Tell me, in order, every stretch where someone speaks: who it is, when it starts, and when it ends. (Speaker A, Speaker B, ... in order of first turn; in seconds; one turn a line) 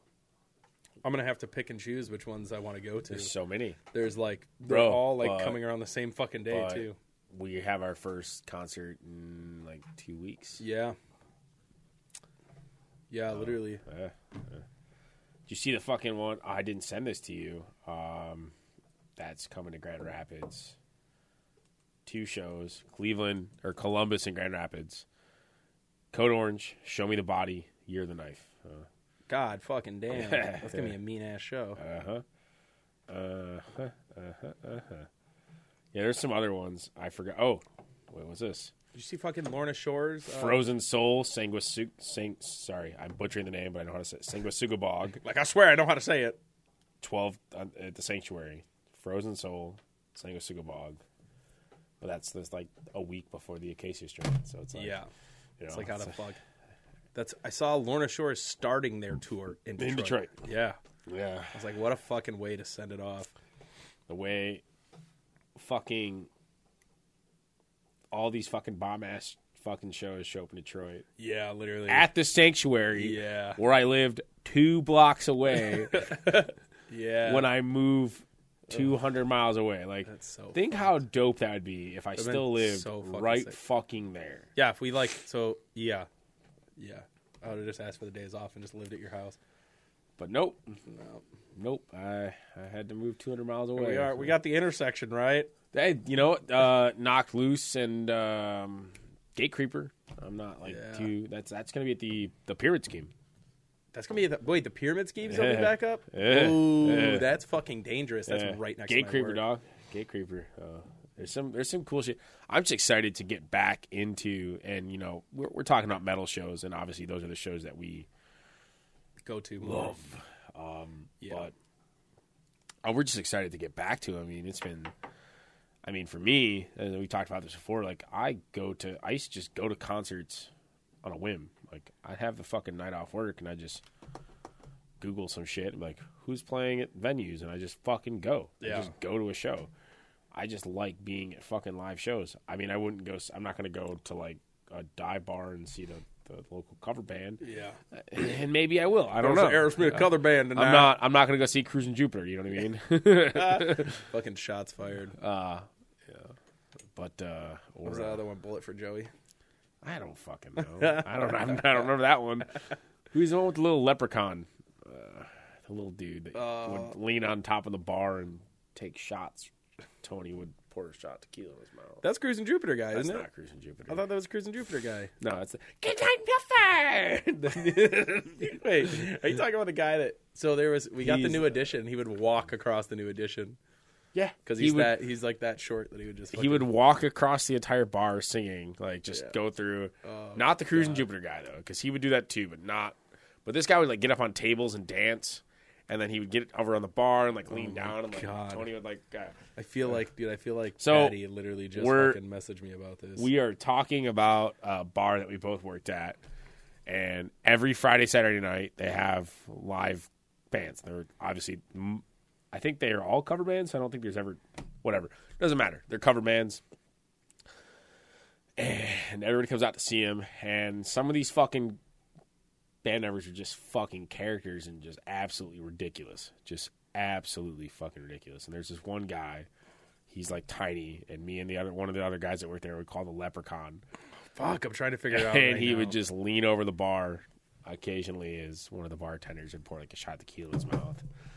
Speaker A: 1.0-3.3
Speaker B: 3.1-3.8
Speaker A: 3.9-7.0
Speaker B: 4.7-5.6
Speaker B: 6.5-10.6
Speaker A: 10.6-11.0
Speaker A: 13.1-13.8
Speaker B: 13.3-14.7
Speaker B: 15.5-18.5
Speaker B: 19.2-20.8
Speaker B: 22.1-25.1
Speaker B: 26.1-28.9
Speaker A: 29.3-31.8
Speaker B: 30.1-31.0
Speaker B: 31.8-32.2
Speaker B: 33.1-35.1
Speaker B: 35.9-38.7
Speaker A: 38.9-40.7
Speaker B: 40.3-45.2
Speaker A: 45.2-46.4
Speaker B: 47.0-51.0
Speaker B: 52.0-55.0
Speaker A: 54.7-55.1
Speaker B: 55.6-56.1
Speaker A: 55.7-56.4
Speaker A: 57.1-60.8
Speaker B: 59.8-60.4
Speaker B: 61.1-61.6
Speaker A: 61.5-63.3
Speaker B: 64.1-64.6
Speaker B: 65.5-66.3
Speaker B: 68.1-71.0
Speaker A: 71.2-72.1
Speaker B: 71.9-76.2
Speaker A: 73.0-73.6
Speaker A: 75.9-77.5
Speaker B: 77.2-84.5
Speaker A: 80.1-80.9
Speaker A: 82.2-83.6
Speaker A: 84.6-86.1
Speaker A: 86.8-89.4
Speaker B: 90.2-90.8
Speaker A: 90.9-91.2
Speaker B: 91.6-94.4
Speaker A: 93.8-95.5
Speaker B: 95.7-103.1
Speaker A: 100.7-101.1
Speaker A: 103.9-109.4
Speaker B: 105.3-107.3
Speaker B: 108.3-118.1
Speaker A: 119.2-120.0
Speaker B: 119.6-121.5
Speaker A: 121.2-121.5
Speaker B: 122.8-124.9
Speaker B: 125.8-130.5
Speaker B: 131.0-133.8
Speaker B: 135.0-139.7
Speaker A: 138.6-138.9
Speaker B: 140.3-147.4
Speaker A: 147.4-147.8
Speaker B: 147.9-154.0
Speaker A: 149.2-151.0
Speaker A: 153.3-155.2
Speaker B: 155.2-156.3
Speaker B: 156.9-158.2
Speaker A: 157.8-159.1
Speaker B: 159.8-162.6
Speaker A: 160.6-161.8
Speaker B: 163.1-172.0
Speaker A: 166.3-166.9
Speaker A: 172.0-173.2
Speaker B: 172.9-174.0
Speaker A: 173.9-175.1
Speaker B: 175.2-178.6
Speaker A: 178.4-183.6
Speaker B: 181.0-181.7
Speaker B: 184.1-185.0
Speaker A: 184.4-186.7
Speaker B: 186.3-199.3
Speaker A: 190.0-191.1
Speaker A: 197.5-198.7
Speaker A: 199.6-203.3
Speaker B: 200.8-201.2
Speaker B: 201.7-202.2
Speaker B: 203.2-206.2
Speaker B: 206.9-216.6
Speaker B: 218.6-221.8
Speaker B: 222.8-229.5
Speaker B: 230.1-233.8
Speaker A: 234.3-236.0
Speaker B: 235.1-241.0